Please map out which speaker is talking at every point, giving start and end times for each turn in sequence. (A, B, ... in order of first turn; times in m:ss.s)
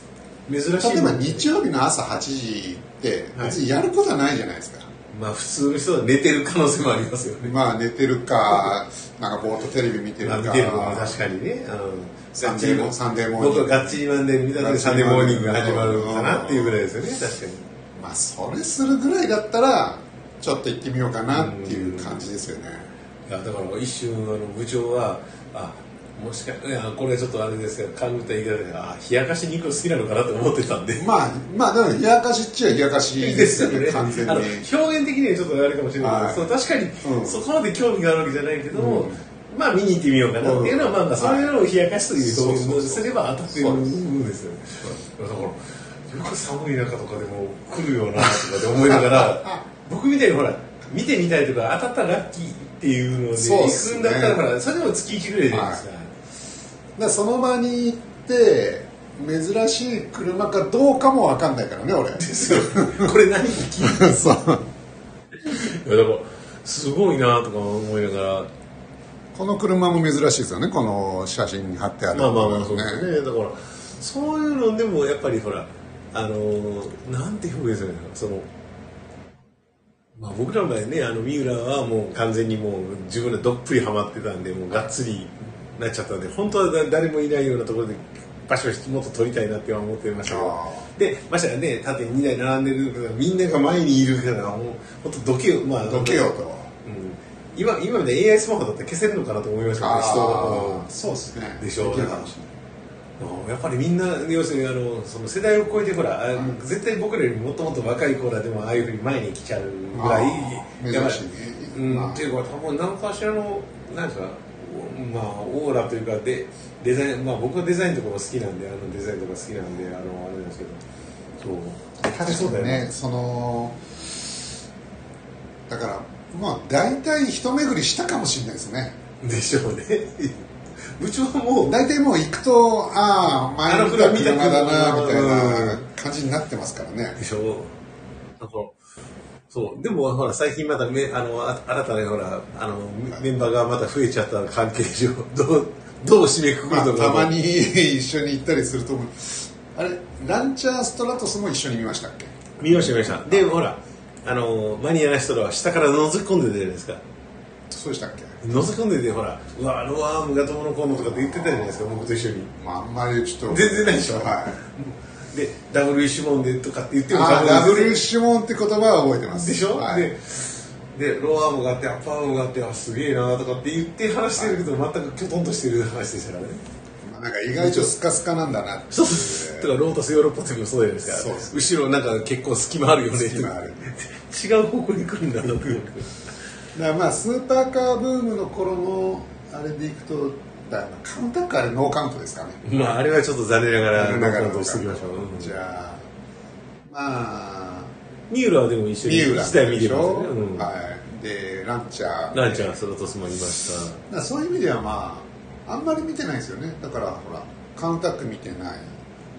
0:00.5-0:01.5 A
0:00.8-0:04.9 B
0:05.1-0:07.5 A
0:07.4-0:11.2 B
0:10.2-0:17.7 A
0:12.4-0:14.0 B
0:14.5-0:16.9 B
0:18.0-0:22.9 B
0:21.3-0:22.2 A
0:23.3-0:31.1 A
0:31.0-0:34.7 B
0:33.2-0:56.1 A
0:36.0-0:36.5 B
0:37.0-0:37.4 B
0:38.7-0:39.2 B
0:40.4-0:41.6 B
0:42.2-0:44.0 B
0:48.6-0:49.4 B
0:53.3-0:54.4 B
0:55.5-0:55.8 B
0:57.0-1:03.1 B
1:02.2-1:04.3 A
1:03.8-1:04.7 B
1:05.4-1:08.5 A
1:09.3-1:13.1 B
1:12.1-1:18.5 A
1:20.1-1:36.3 A
1:30.2-1:30.9 B
1:35.8-1:36.7 B
1:36.8-1:40.9 A
1:39.8-1:42.5 B
1:41.6-1:42.3 A
1:43.2-1:51.2 A
1:46.3-1:46.6 B
1:49.9-1:52.3 B
1:51.7-2:00.8 A
2:01.4-2:02.9 A
2:02.0-2:03.8 B
2:05.7-2:09.0 B
2:09.2-2:11.7 A
2:11.6-2:17.2 B
2:13.6-2:15.8 A
2:17.2-2:17.7 A
2:18.4-2:18.7 A
2:19.5-2:27.3 A
2:26.7-2:33.5 B
2:32.6-2:37.0 A
2:37.7-2:38.4 B
2:38.4-2:42.5 A
2:41.0-2:42.0 B
2:42.5-2:44.6 B
2:43.5-2:48.0 A
2:47.1-2:50.1 B
2:49.3-2:56.6 A
2:54.4-2:54.6 B
2:57.0-2:59.7 B
2:57.6-2:57.9 A
2:58.9-3:06.2 A
3:01.1-3:01.5 B
3:03.1-3:03.9 B
3:06.7-3:12.6 B
3:12.6-3:15.5 A
3:13.9-3:16.0 B
3:16.8-3:17.9 B
3:18.3-3:20.7 A
3:19.0-3:22.8 B
3:22.3-3:24.0 A
3:24.1-3:29.0 B